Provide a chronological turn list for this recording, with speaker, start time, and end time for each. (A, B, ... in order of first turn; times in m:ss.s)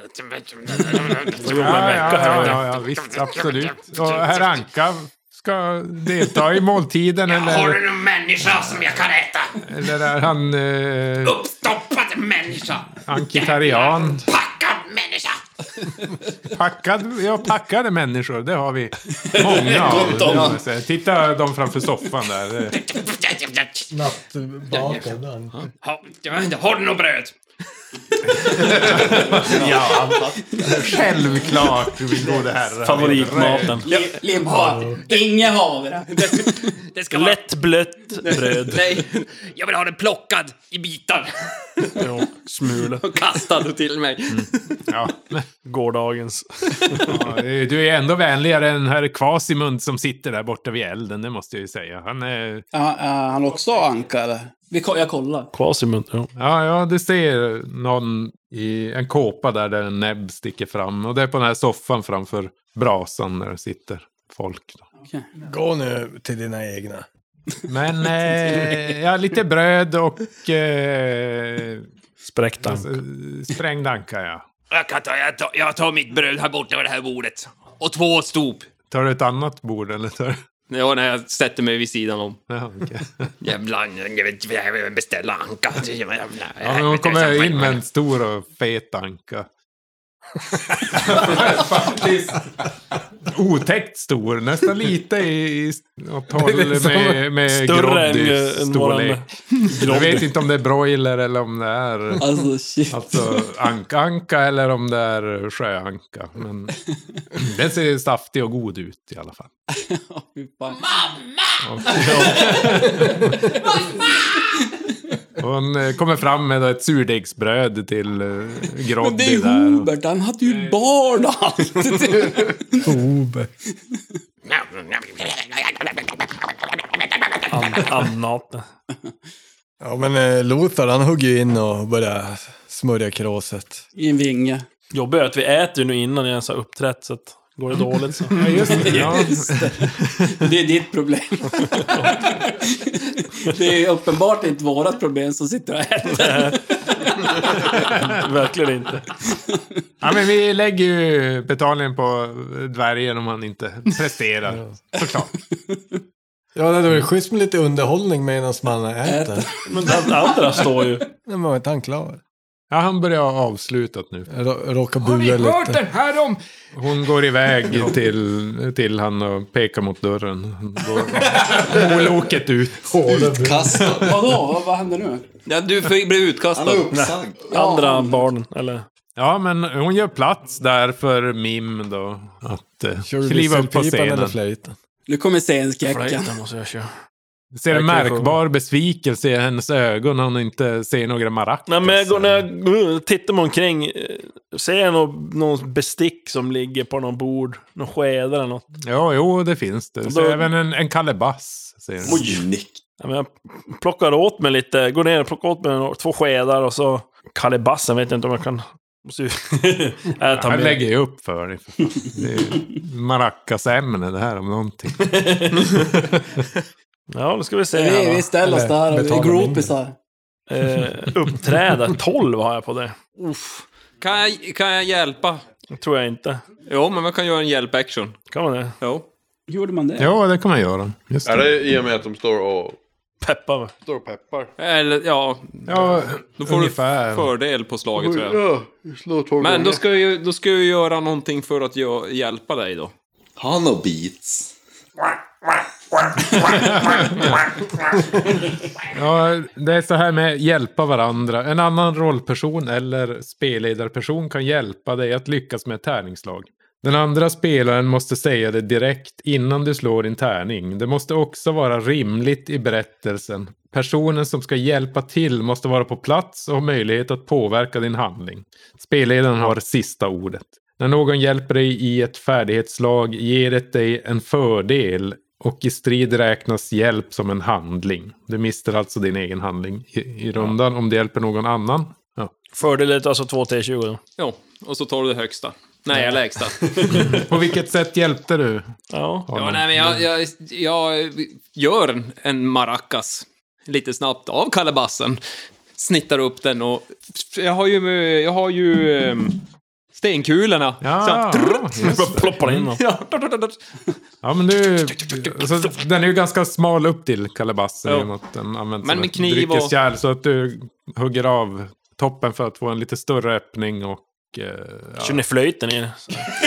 0:00.3-0:01.2 A
0:01.3-0:02.7 B
0:01.5-0:07.8 C
0:07.3-0:09.5 A
0:09.6-0:11.4 C
0:11.2-0:15.4 A
0:13.0-0:14.2 C
0:16.5-0:22.8 C
0:19.2-0:20.5 D
0:22.7-0:23.8 A
0:23.9-0:25.5 E
0:24.8-0:25.0 A
0:25.8-0:27.3 A
0:28.3-0:33.8 C
0:28.6-0:30.4 A
0:32.8-0:33.9 B
0:33.8-0:36.8 D
0:34.5-0:35.0 E
0:36.9-0:37.4 A
0:37.1-0:38.9 B
0:38.4-0:39.1 F
0:38.8-0:41.8 A
0:42.0-0:43.0 B
0:43.0-0:43.7 A
0:43.2-0:44.5 F
0:44.3-0:45.5 C
0:45.6-0:47.1 B
0:47.0-0:52.6 C
0:52.7-0:55.5 D
0:55.5-0:56.3 B
0:56.4-1:04.9 C
1:05.4-1:07.0 E
1:07.7-1:11.9 C
1:12.2-1:13.0 B
1:12.6-1:14.4 C
1:14.7-1:18.6 A
1:18.9-1:20.4 C
1:20.7-1:22.4 F
1:22.5-1:23.3 C
1:23.4-1:27.8 A
1:26.6-1:29.5 C
1:30.9-1:32.4 C
1:33.2-1:42.3 C
1:36.4-1:37.2 E
1:37.5-1:40.3 B
1:42.2-1:43.4 D
1:42.9-1:46.8 C
1:47.3-1:49.5 C
1:49.8-1:50.8 D
1:51.6-1:53.5 C
1:55.4-1:59.9 C
1:59.0-2:02.9 D
2:02.8-2:03.5 E
2:04.5-2:06.1 A
2:07.5-2:08.6 B
2:09.8-2:13.8 E
2:14.0-2:14.6 D
2:14.9-2:19.2 B
2:18.4-2:20.3 C
2:18.4-2:19.8 D
2:20.3-2:27.5 D
2:21.9-2:22.3 B
2:26.2-2:26.6 B
2:27.5-2:29.0 B
2:30.0-2:35.3 C
2:36.5-2:39.5 E
2:39.0-2:40.4 D
2:39.7-2:41.0 B
2:41.2-2:42.2 E
2:42.7-2:44.3 C
2:44.3-2:45.8 E
2:46.7-2:53.5 C
2:53.0-2:53.8 E
2:53.4-2:54.1 G
2:53.9-2:55.2 D
2:55.5-2:56.9 F
2:56.5-2:57.4 G
2:56.9-2:58.8 B
2:57.5-2:58.2 D
2:59.2-3:04.4 C
3:03.0-3:04.8 E
3:05.1-3:06.3 D
3:05.9-3:06.9 B
3:07.5-3:12.5 C
3:07.7-3:08.4 B
3:11.7-3:18.6 B
3:18.8-3:22.2 C
3:20.0-3:20.5 B
3:22.0-3:22.5 B
3:22.0-3:22.8 G
3:23.0-3:30.8 B
3:30.3-3:36.1 C
3:35.1-3:35.8 B
3:37.1-3:38.3 B
3:37.7-3:39.9 D
3:38.4-3:39.7 E
3:40.5-3:43.5 B
3:44.0-3:45.4 F
3:45.7-3:46.4 B
3:46.6-3:48.2 F
3:48.3-3:48.8 B
3:48.8-3:49.0 F
3:49.5-3:50.1 D
3:50.0-3:51.6 C
3:51.2-3:52.8 H
3:53.2-3:53.7 B
3:53.8-3:54.5 H
3:54.6-3:58.4 F
3:55.7-3:57.3 C
3:58.0-3:59.8 H
3:59.4-4:02.9 F
4:03.4-4:04.5 G
4:06.6-4:07.4 C
4:08.9-4:42.3 C
4:42.5-4:44.0 B
4:44.2-4:47.0 F
4:46.0-4:47.3 B
4:47.0-4:48.8 C
4:48.9-4:49.3 B
4:49.3-4:50.0 C
4:49.3-4:55.2 F
4:55.8-4:59.4 F
5:00.0-5:01.6 F
5:00.8-5:02.7 C
5:01.8-5:02.8 B
5:02.7-5:03.6 F
5:04.2-5:15.2 C
5:08.8-5:09.8 F
5:15.0-5:16.3 B